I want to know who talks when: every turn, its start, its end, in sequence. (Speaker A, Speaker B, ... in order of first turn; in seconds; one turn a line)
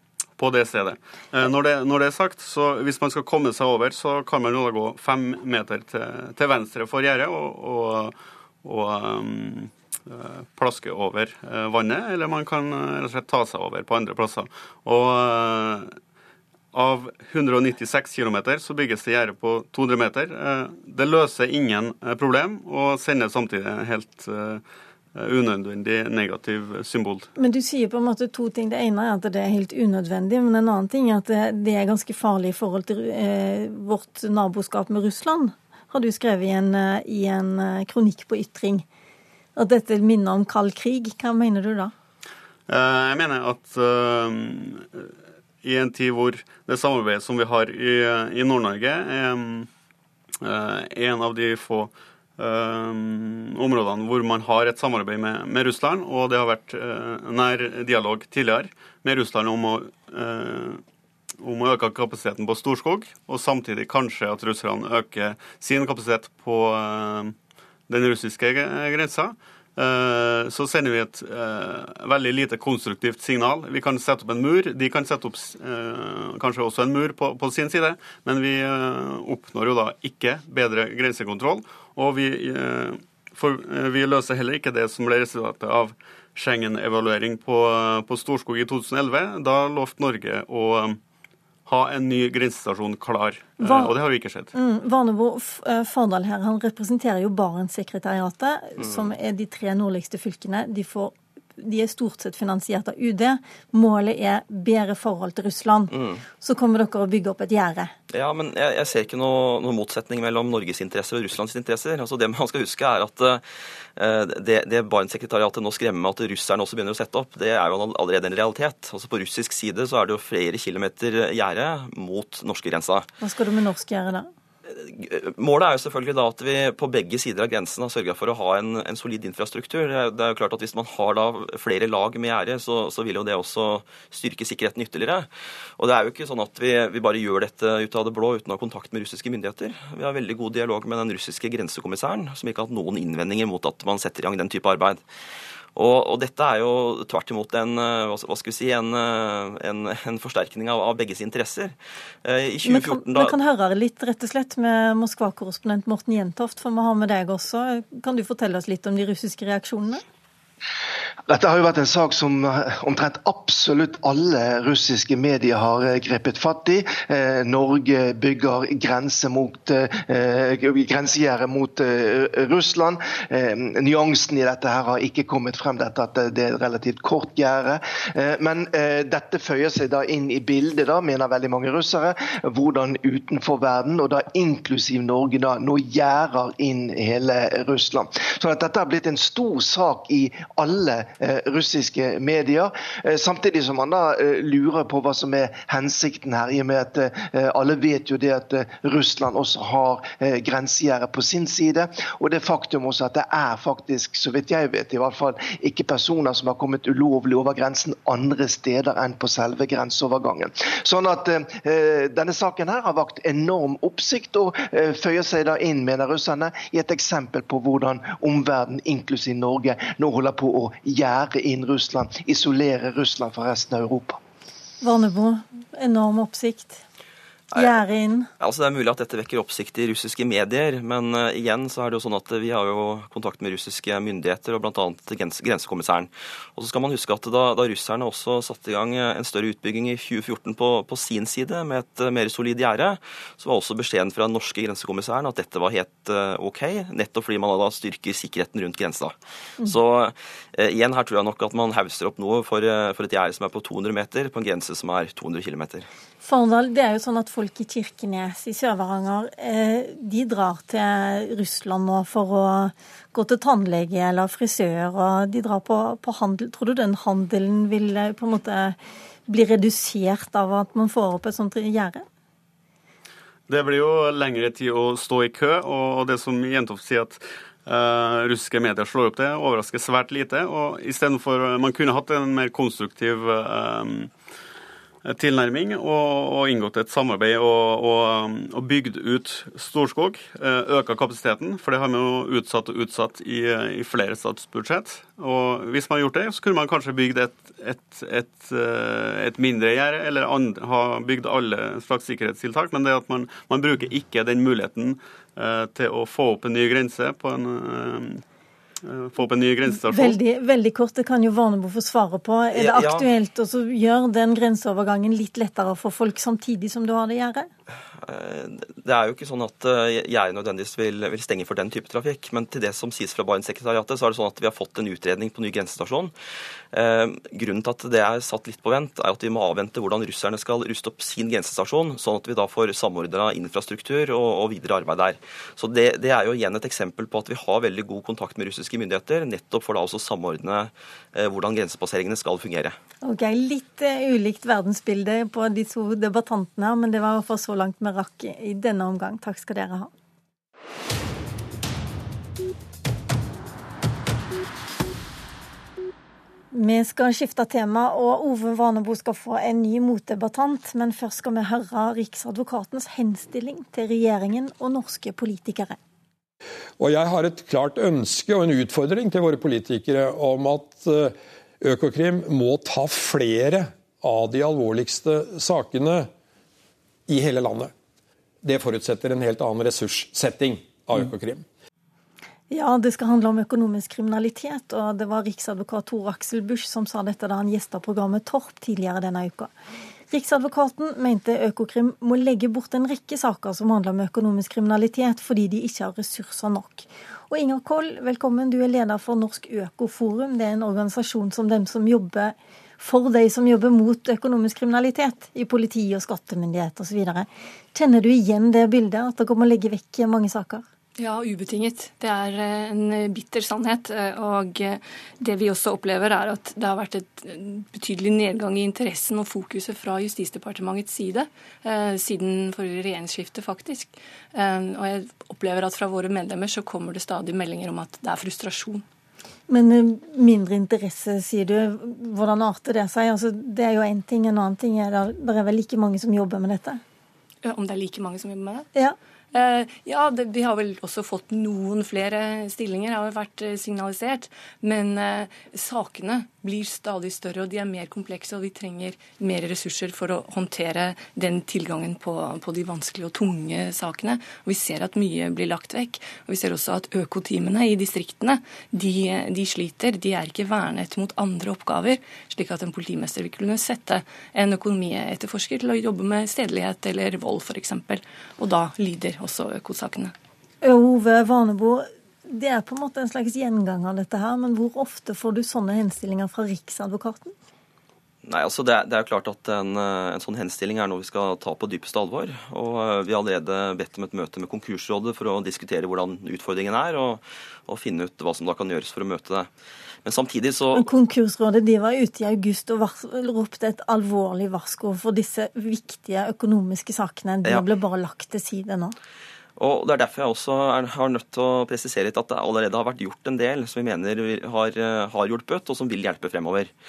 Speaker A: 0.4-15.9
Speaker A: 16.7-24.6
Speaker A: 25.1-27.3
Speaker B: 27.4-38.9
Speaker B: 39.5-41.9
Speaker A: 42.7-45.1
Speaker A: 45.6-49.7
Speaker A: 50.4-60.8
Speaker A: 61.4-67.3
Speaker A: 67.9-91.0
Speaker A: 91.6-94.5
Speaker B: 93.6-93.9
Speaker B: 94.5-107.9
Speaker C: 105.9-106.2
Speaker C: 108.1-113.4
Speaker C: 114.0-123.1
Speaker B: 123.2-124.3
Speaker C: 124.7-135.3
Speaker C: 135.8-145.0
Speaker C: 145.7-153.3
Speaker B: 152.6-160.0
Speaker D: 161.3-224.2
Speaker B: 224.8-226.8
Speaker C: 227.5-227.8
Speaker B: 227.5-228.3
Speaker C: 228.4-249.1
Speaker C: 249.6-255.9
Speaker B: 256.2-268.8
Speaker B: 269.3-272.0
Speaker A: 273.5-284.1
Speaker A: 285.0-308.2
Speaker A: 308.8-310.2
Speaker B: 309.7-317.5
Speaker C: 312.5-313.1
Speaker C: 318.0-326.1
Speaker C: 326.7-342.8
Speaker B: 343.0-349.9
Speaker B: 356.5-365.8
Speaker E: 366.8-376.1
Speaker E: 377.1-377.7
Speaker E: 378.4-381.4
Speaker B: 382.5-389.5
Speaker B: 390.1-410.6
Speaker F: 411.0-428.8
Speaker B: 429.5-436.8
Speaker F: 437.4-438.7
Speaker F: 439.3-470.1
Speaker B: 470.6-477.3
Speaker C: 478.2-489.5
Speaker C: 490.0-490.9
Speaker B: 490.7-498.9
Speaker C: 499.6-506.7